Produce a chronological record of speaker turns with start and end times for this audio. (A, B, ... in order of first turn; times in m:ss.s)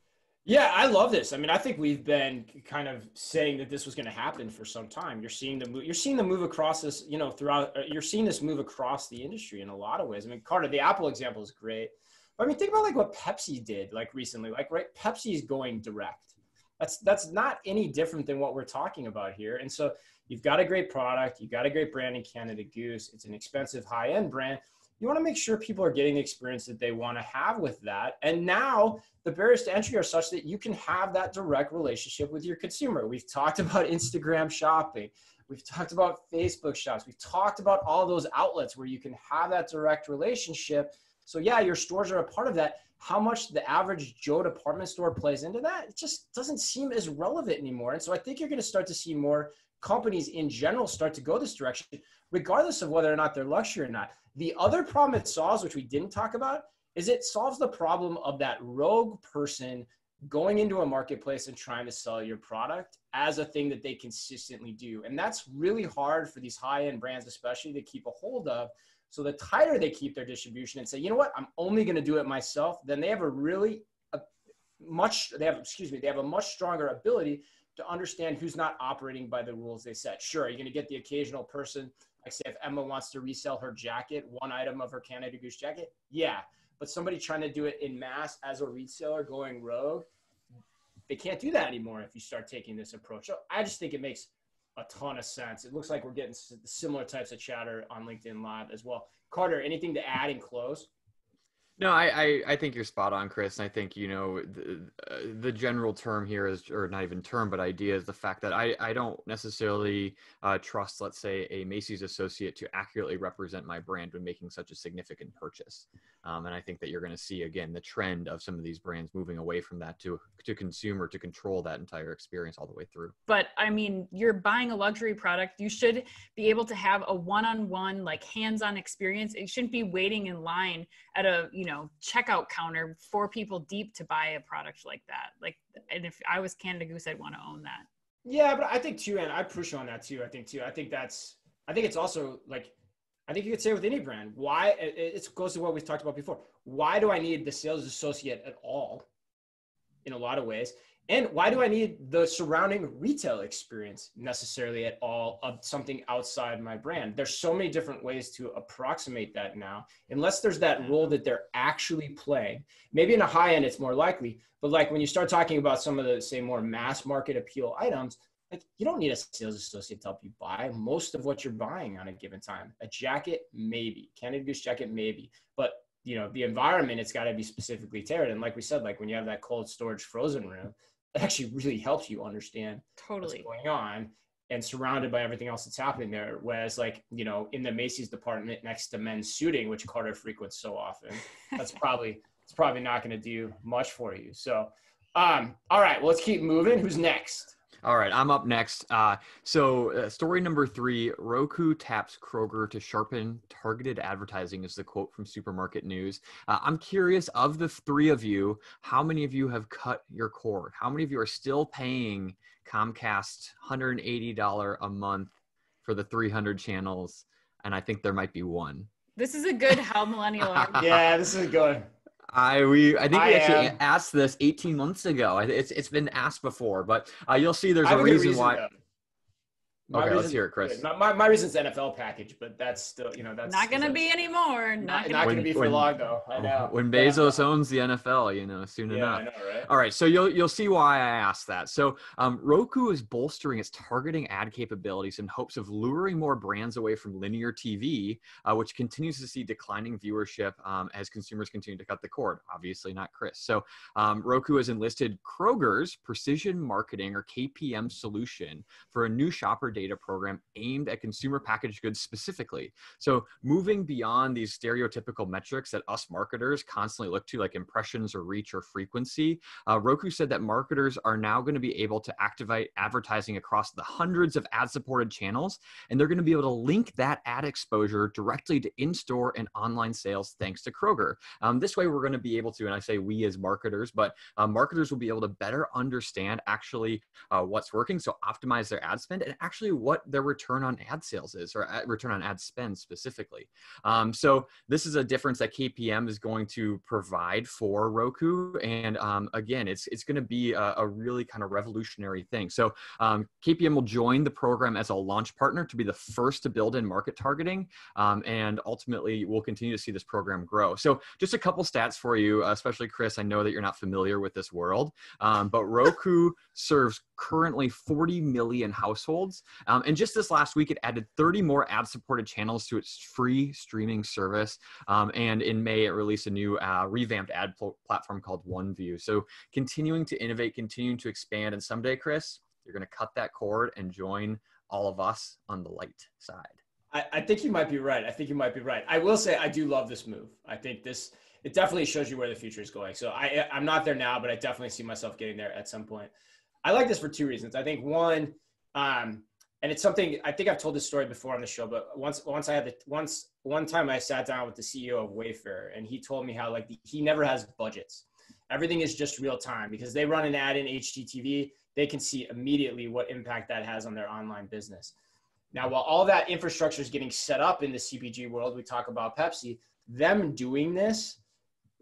0:00.5-1:14.3 A
1:14.8-1:30.1 A
1:31.1-1:40.9 A
1:41.8-2:03.1 B
2:03.3-2:17.9 C
2:18.2-2:22.7 A
2:23.3-2:29.1 A
2:30.0-3:17.6 A
3:03.0-3:03.5 C
3:17.8-3:35.3 B
3:35.8-3:38.9 B
3:39.2-3:40.9 C
3:40.4-3:41.0 B
3:40.8-3:41.9 A
3:42.3-3:48.6 B
3:43.1-3:43.8 A
3:47.8-3:48.8 A
3:49.9-3:50.8 B
3:49.9-3:54.0 A
3:53.5-3:55.5 C
3:54.8-3:57.4 A
3:55.2-5:36.6 B
3:58.9-3:59.7 A
5:36.9-5:46.1 A
5:46.6-6:04.9 A
6:05.5-6:11.2 A